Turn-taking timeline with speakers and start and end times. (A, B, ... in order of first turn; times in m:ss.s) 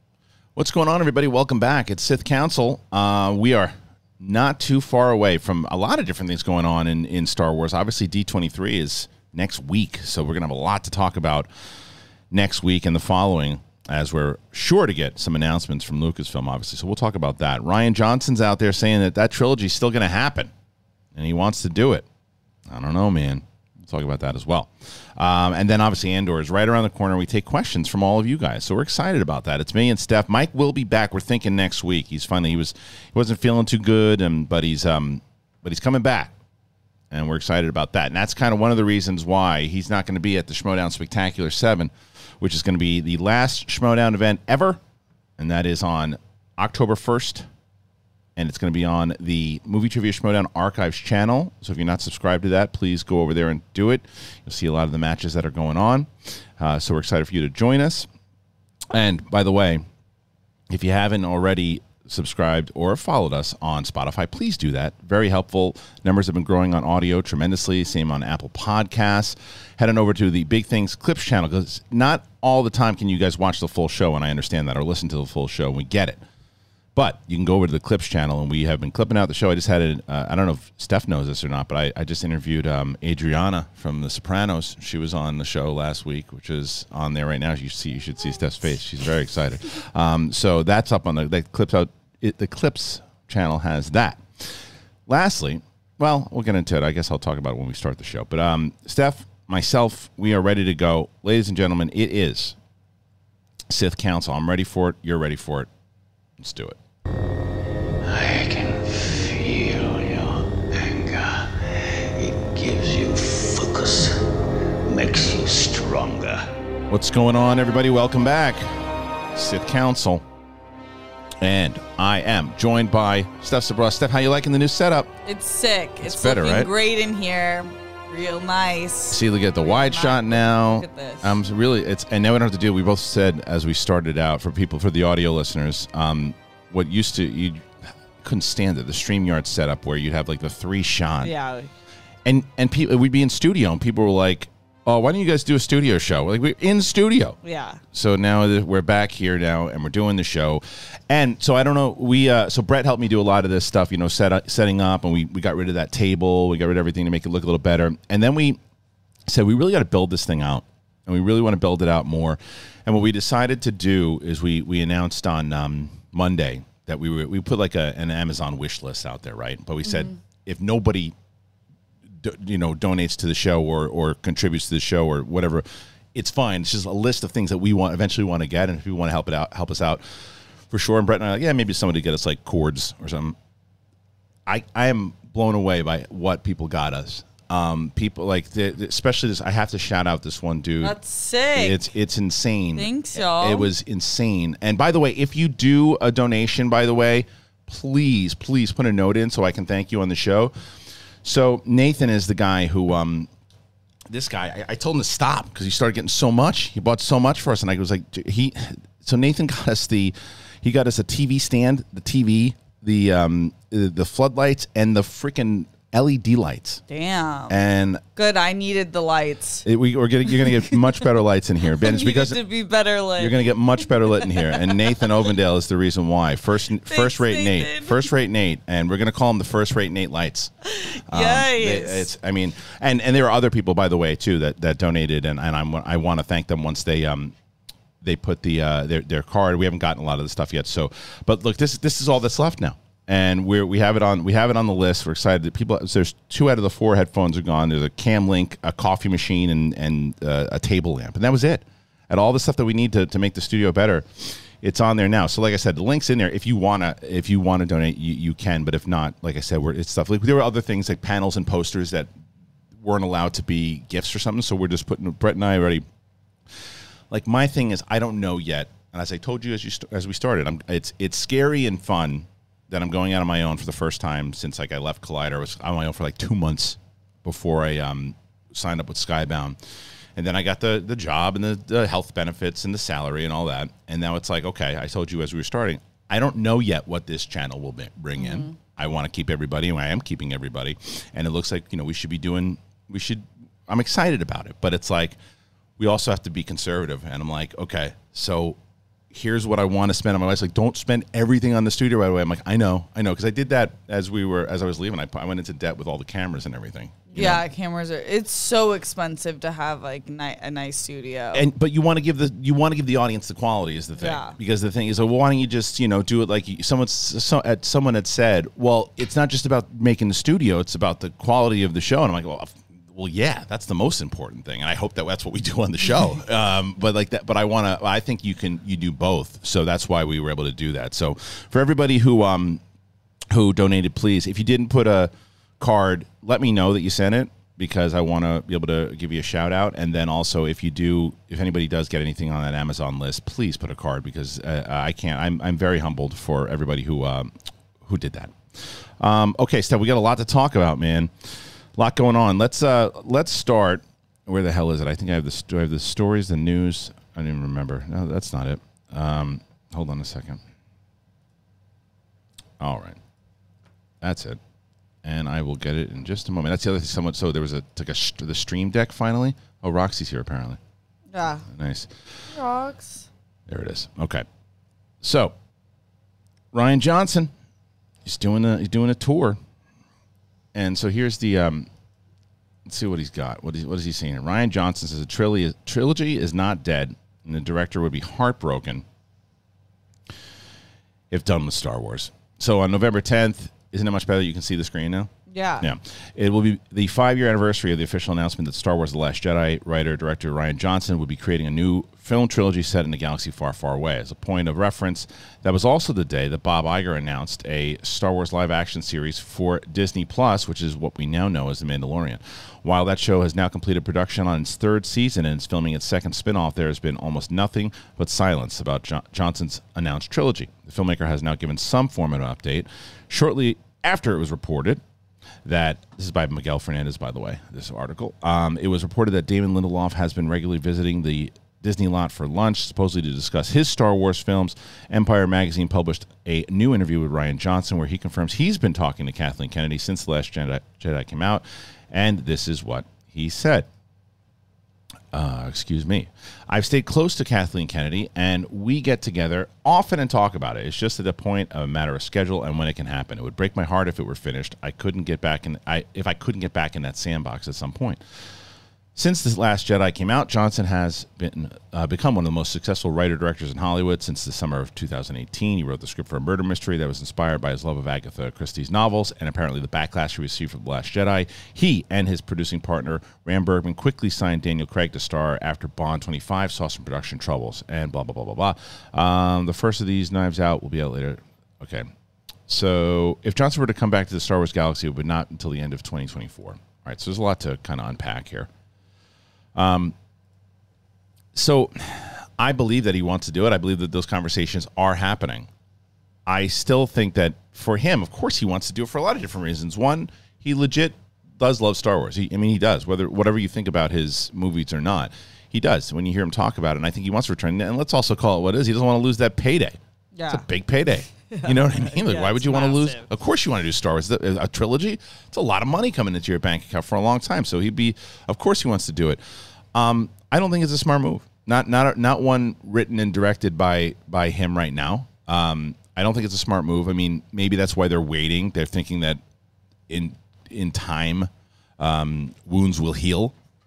0:00.6-0:11.5 A
0:12.3-0:20.5 A
0:21.1-0:22.0 A
0:22.7-0:36.3 A
0:37.1-0:44.8 A
0:45.4-0:47.5 A
0:48.4-0:58.1 A
0:58.9-0:59.8 A
1:00.7-1:16.2 A
1:16.9-1:42.6 A
1:43.7-1:45.7 A
1:46.4-1:46.8 A
1:48.0-1:56.5 B
1:56.9-2:00.2 A
2:01.4-2:05.2 A
2:05.2-2:11.3 C
2:06.0-2:06.7 A
2:09.1-2:21.3 A
2:21.2-2:21.7 C
2:22.2-2:27.4 A
2:27.4-2:27.8 C
2:27.9-2:38.6 A
2:39.3-2:51.1 A
2:49.8-2:50.1 C
2:52.2-3:00.0 A
3:00.7-3:03.4 A
3:04.5-3:11.0 A
3:10.8-3:11.8 C
3:11.5-3:20.5 A
3:12.8-3:13.7 C
3:21.2-3:23.3 A
3:24.1-3:36.8 A
3:36.9-3:37.6 C
3:37.5-3:38.0 A
3:38.2-3:39.6 C
3:39.6-3:42.4 A
3:40.4-3:40.8 C
3:41.8-3:43.5 C
3:43.2-3:50.5 A
3:44.2-3:44.7 C
3:46.9-3:48.1 C
3:50.6-3:52.1 C
3:51.1-3:57.3 A
3:58.0-4:22.1 A
4:22.8-4:25.8 A
4:27.1-4:39.6 A
4:40.2-4:55.2 A
4:48.2-4:48.5 C
4:55.8-4:58.6 A
4:59.1-5:07.4 A
5:07.1-5:11.4 C
5:11.3-5:32.6 A
5:14.0-5:14.3 C
5:33.3-6:00.4 A
6:02.6-6:03.0 A
6:04.0-6:04.4 A
6:05.0-6:10.6 A
6:11.1-6:11.4 C
6:11.5-6:12.2 A
6:12.3-6:13.1 C
6:13.5-6:14.2 A
6:15.0-6:15.3 A
6:16.5-6:17.3 A
6:18.0-6:19.4 A
6:20.5-6:21.7 A
6:22.6-6:28.8 A
6:31.1-7:04.8 A
6:35.3-6:35.7 C
7:05.4-7:23.7 A
7:25.1-7:38.0 A
7:38.9-8:01.9 A
8:02.5-8:08.5 A
8:09.5-8:09.9 A
8:11.3-8:15.5 A
8:16.3-8:29.8 A
8:30.1-8:30.5 C
8:30.3-8:39.2 A
8:31.3-8:33.0 C
8:39.7-8:49.2 A
8:49.9-8:53.3 A